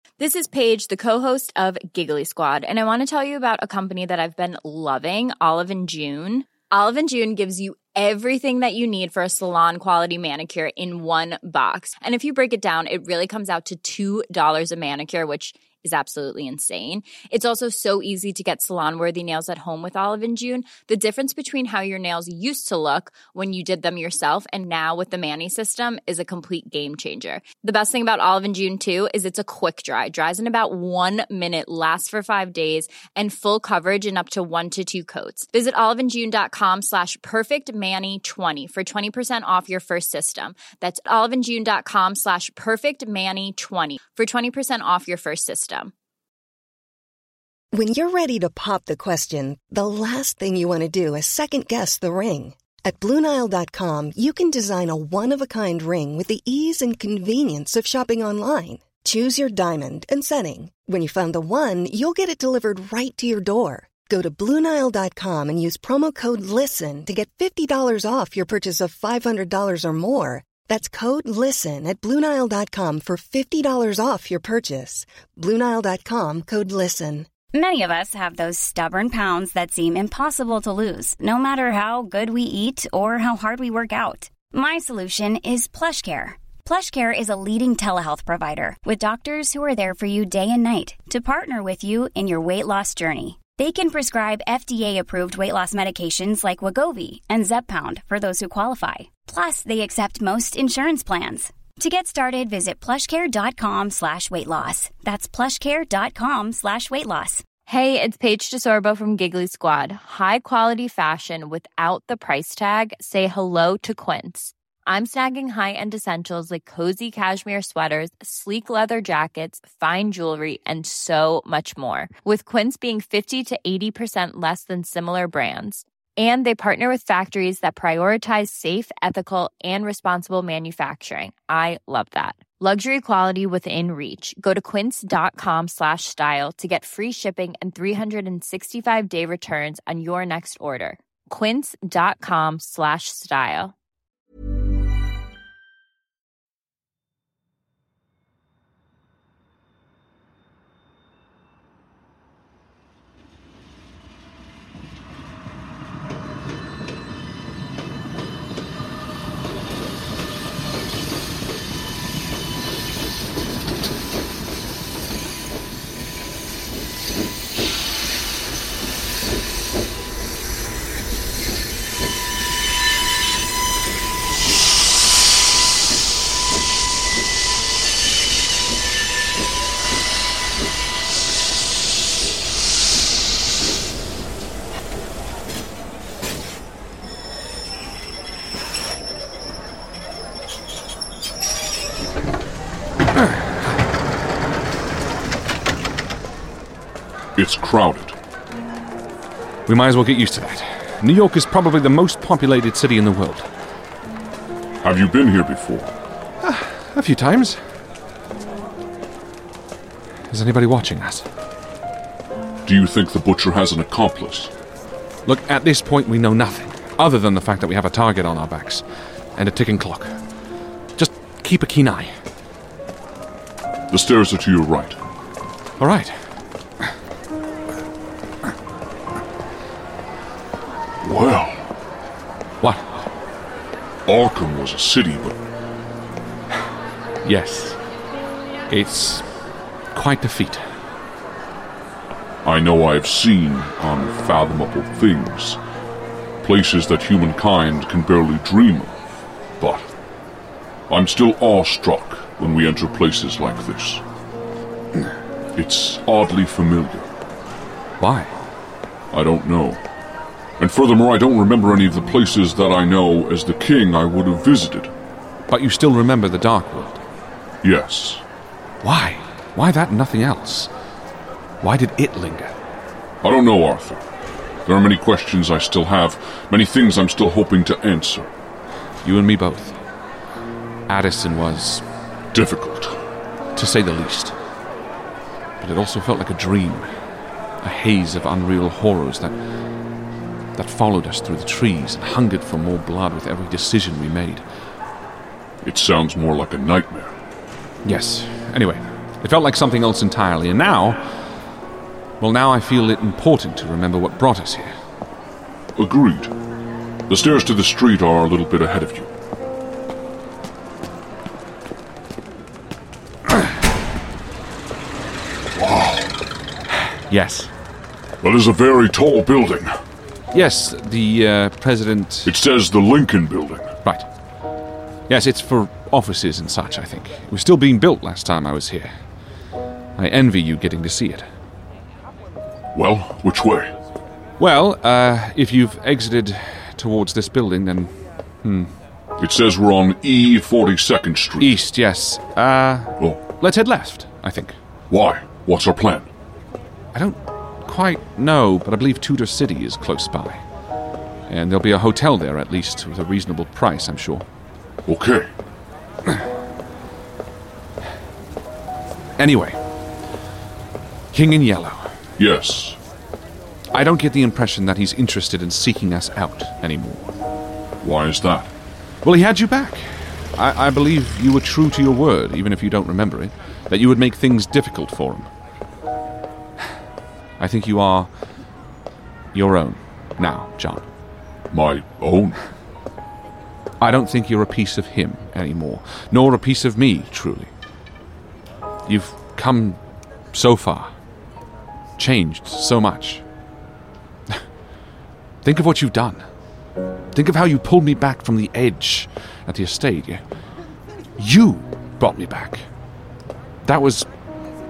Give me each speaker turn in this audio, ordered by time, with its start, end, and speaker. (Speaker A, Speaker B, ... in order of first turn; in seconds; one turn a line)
Speaker A: 0.2-45.9
Speaker B: 47.7-77.3
Speaker C: 77.5-107.4
Speaker A: 107.7-143.7
Speaker D: 197.3-198.1
Speaker E: 199.7-203.5
Speaker D: 204.8-205.9
Speaker E: 206.4-207.6
Speaker E: 210.3-211.2
Speaker D: 212.6-214.5
Speaker E: 215.2-218.8
Speaker E: 219.3-220.2
Speaker E: 220.9-222.1
Speaker D: 223.9-225.0
Speaker E: 225.8-226.1
Speaker D: 231.0-231.7
Speaker E: 232.6-233.1
Speaker D: 234.1-235.4
Speaker E: 237.2-237.8
Speaker E: 238.7-239.3
Speaker E: 239.9-240.6
Speaker D: 242.4-245.6
Speaker D: 246.4-249.0
Speaker D: 249.6-249.9
Speaker D: 250.9-254.0
Speaker D: 255.5-257.1
Speaker E: 258.0-258.3
Speaker D: 259.1-259.8
Speaker D: 260.6-264.9
Speaker E: 265.5-267.0
Speaker D: 267.6-268.2
Speaker E: 268.8-270.7
Speaker E: 271.6-272.5
Speaker D: 273.2-274.1
Speaker D: 274.6-278.3
Speaker E: 279.0-279.8
Speaker E: 280.9-281.8
Speaker D: 282.3-282.9
Speaker E: 283.5-284.3
Speaker E: 285.6-286.9
Speaker E: 287.6-289.3
Speaker E: 290.6-294.4
Speaker D: 295.6-297.1
Speaker E: 297.8-301.0
Speaker E: 302.2-304.7
Speaker D: 305.7-306.3
Speaker D: 307.1-309.1
Speaker D: 315.5-316.1
Speaker E: 317.1-317.5
Speaker D: 318.2-319.7
Speaker E: 320.3-322.3
Speaker D: 322.2-323.7
Speaker E: 325.1-328.9
Speaker E: 330.0-331.3
Speaker D: 332.7-333.7
Speaker E: 334.4-337.9
Speaker E: 338.4-338.7
Speaker D: 339.2-341.6
Speaker E: 341.4-344.6
Speaker D: 344.9-346.1
Speaker E: 346.9-350.4
Speaker E: 351.3-354.2
Speaker D: 354.9-355.3
Speaker E: 359.2-359.6
Speaker E: 361.1-361.8
Speaker D: 362.2-362.8
Speaker E: 363.7-367.1
Speaker D: 367.8-368.5
Speaker E: 369.0-375.3
Speaker E: 377.4-378.1
Speaker E: 379.3-380.9
Speaker D: 381.5-382.4
Speaker E: 383.8-387.5
Speaker E: 388.9-389.8
Speaker E: 390.3-390.9
Speaker E: 392.0-393.2
Speaker E: 395.4-396.2
Speaker E: 397.1-400.2
Speaker E: 401.2-402.6
Speaker E: 403.6-404.1